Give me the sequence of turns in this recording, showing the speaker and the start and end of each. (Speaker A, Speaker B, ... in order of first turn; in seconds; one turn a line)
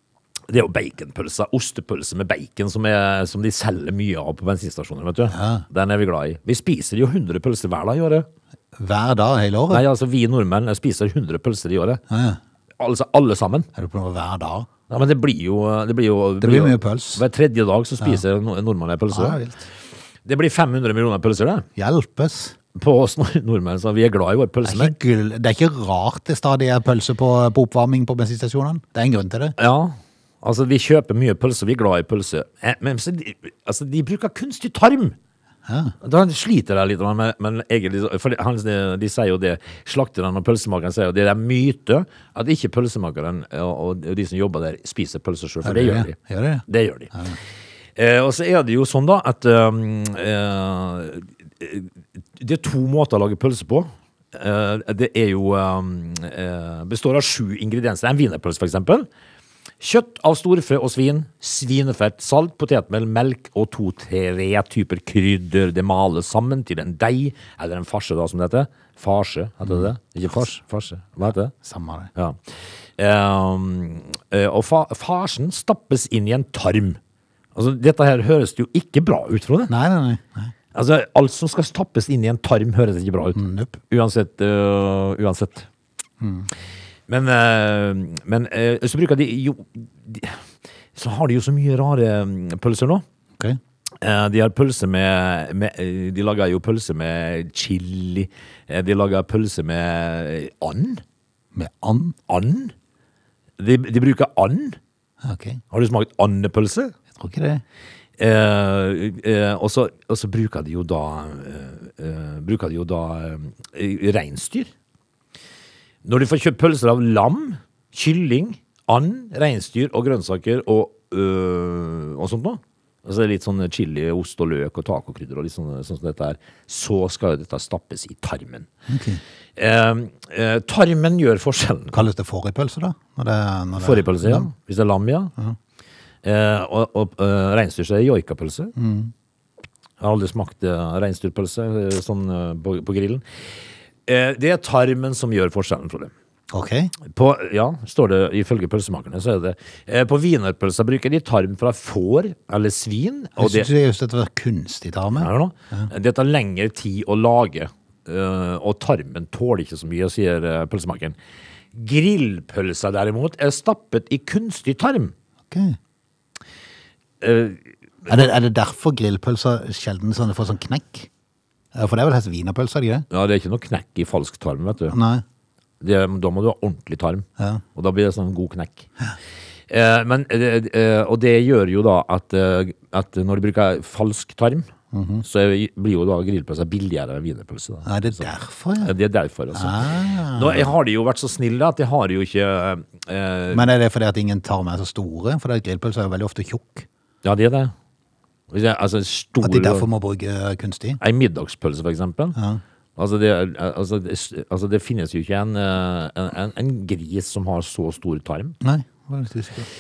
Speaker A: 0.5-8.3
Speaker B: 5.3-5.6
Speaker B: 8.8-9.8
Speaker A: 9.7-12.0
Speaker B: 12.1-12.4
Speaker A: 12.8-13.7
Speaker B: 13.8-14.7
Speaker A: 14.9-19.4
Speaker B: 16.4-17.2
Speaker B: 19.1-19.6
Speaker A: 20.2-21.7
Speaker B: 21.8-22.6
Speaker A: 22.8-24.9
Speaker B: 24.6-29.6
Speaker A: 29.6-35.1
Speaker B: 35.7-36.0
Speaker A: 36.0-46.1
Speaker B: 45.6-47.4
Speaker A: 46.7-47.1
Speaker A: 48.0-59.1
Speaker A: 59.8-71.5
Speaker B: 69.6-70.6
Speaker B: 71.6-72.1
Speaker A: 72.2-77.0
Speaker A: 77.5-79.7
Speaker B: 79.7-80.5
Speaker A: 80.7-85.7
Speaker B: 83.3-83.8
Speaker B: 86.2-86.5
Speaker A: 87.1-90.4
Speaker A: 91.0-93.0
Speaker A: 94.0-101.0
Speaker B: 101.5-102.2
Speaker A: 102.3-102.7
Speaker A: 103.6-104.8
Speaker B: 105.2-105.6
Speaker A: 105.7-106.9
Speaker B: 107.2-107.6
Speaker A: 108.2-114.7
Speaker A: 116.0-128.7
Speaker B: 128.9-129.2
Speaker A: 129.6-132.0
Speaker B: 131.9-134.5
Speaker A: 133.8-135.3
Speaker A: 136.2-138.7
Speaker B: 138.8-139.1
Speaker A: 140.0-143.2
Speaker A: 144.1-146.1
Speaker B: 146.5-146.9
Speaker A: 147.1-153.7
Speaker B: 153.4-155.9
Speaker A: 155.2-161.2
Speaker A: 161.7-165.1
Speaker B: 165.5-165.8
Speaker A: 167.2-168.3
Speaker B: 168.1-171.1
Speaker B: 171.8-173.1
Speaker A: 173.1-175.0
Speaker B: 174.9-175.2
Speaker A: 175.8-178.9
Speaker A: 179.7-184.7
Speaker B: 184.9-185.2
Speaker A: 185.2-188.2
Speaker B: 187.8-188.9
Speaker A: 188.8-193.7
Speaker B: 189.5-190.7
Speaker B: 193.5-196.9
Speaker A: 197.2-197.7
Speaker A: 198.5-199.9
Speaker B: 199.4-201.0
Speaker A: 201.0-202.4
Speaker B: 202.4-202.6
Speaker A: 203.0-208.6
Speaker B: 208.6-209.7